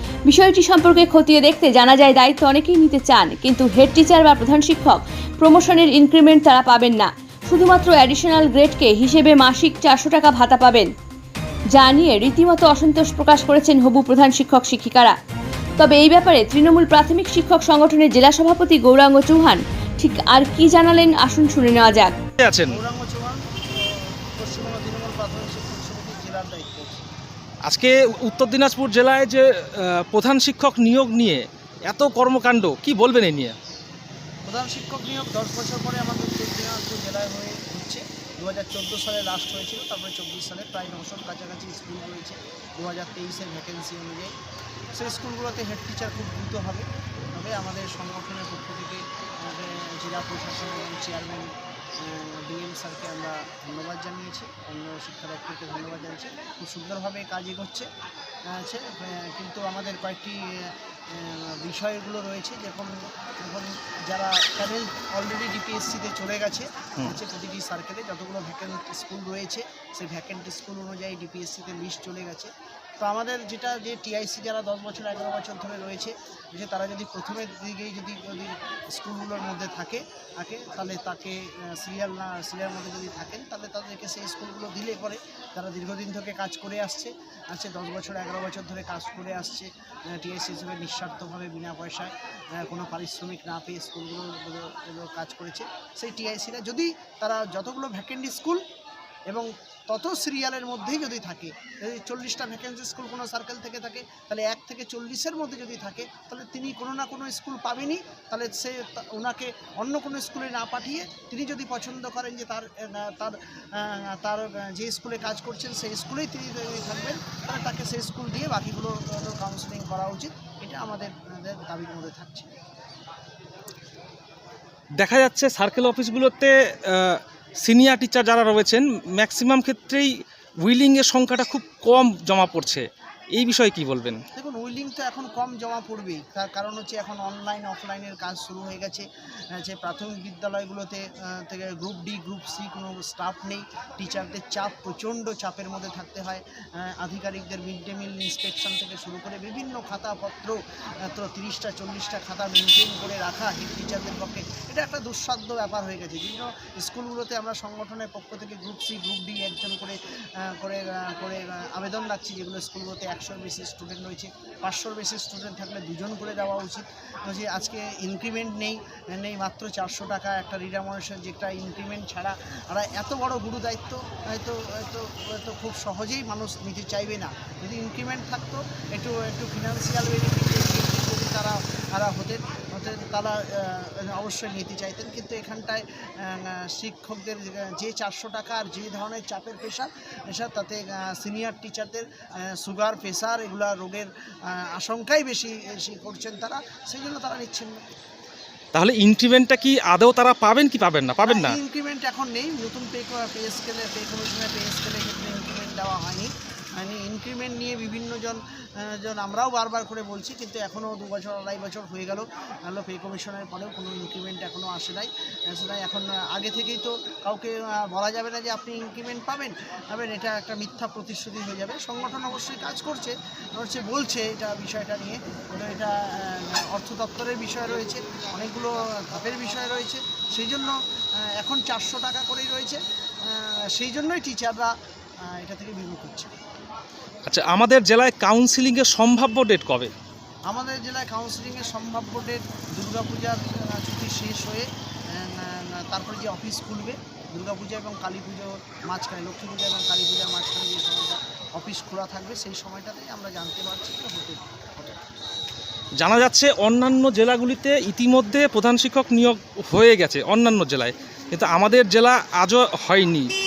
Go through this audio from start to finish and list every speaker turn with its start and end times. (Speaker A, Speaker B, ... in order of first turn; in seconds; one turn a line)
Speaker A: 0.3-10.9
Speaker A: 11.7-15.2
Speaker A: 15.8-22.1
Speaker B: 22.4-22.8
Speaker C: 22.7-27.1
Speaker B: 27.7-33.6
Speaker C: 34.5-44.3
Speaker C: 44.9-57.9
Speaker C: 58.5-98.6
Speaker C: 99.3-122.5
Speaker B: 125.0-130.1
Speaker B: 130.6-134.2
Speaker C: 134.3-139.1
Speaker C: 139.6-197.8
Speaker B: 198.7-201.6
Speaker C: 201.3-230.8
Speaker C: 231.4-234.7
Speaker C: 235.3-236.3
Speaker B: 237.3-239.9
Speaker C: 240.5-255.0
Speaker B: 256.0-263.3